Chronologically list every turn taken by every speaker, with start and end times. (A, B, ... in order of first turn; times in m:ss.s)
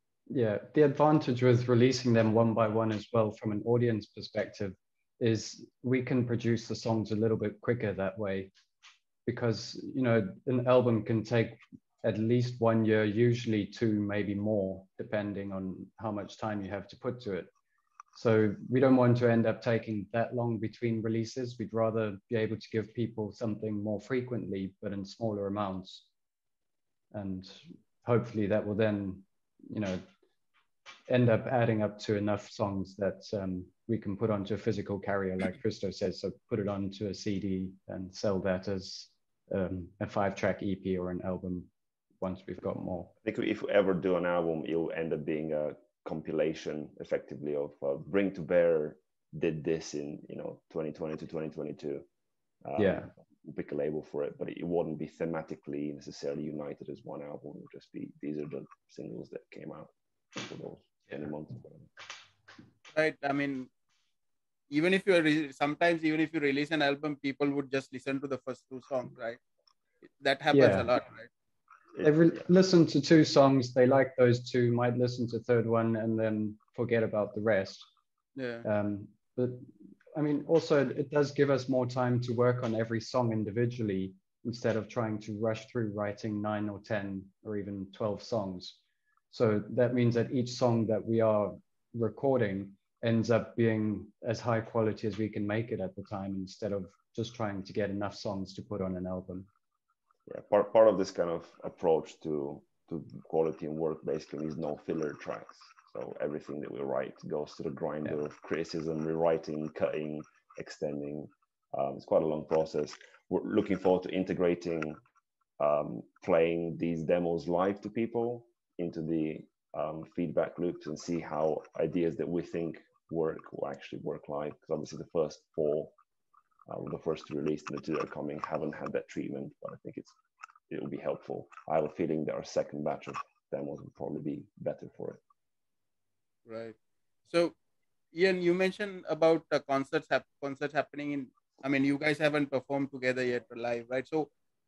0:00.3-0:08.5 A
0:09.2-0:17.5 A
0:18.1-0:26.1 A
0:27.1-0:30.0 A
0:31.1-0:41.7 A
0:42.2-0:43.1 A
0:43.2-0:52.0 B
0:52.6-1:01.9 B
0:52.8-0:53.1 A
1:02.9-1:03.7 C
1:04.7-1:09.4 C
1:10.2-1:11.3 C
1:10.5-1:10.9 A
1:12.0-1:17.9 A
1:18.4-1:18.6 C
1:18.6-1:28.8 A
1:29.3-1:39.5 A
1:40.3-1:55.0 B
1:55.6-2:05.9 B
2:06.7-2:10.2 B
2:10.7-2:15.2 B
2:16.4-2:16.8 C
2:17.3-2:17.5 C
2:18.1-2:24.3 C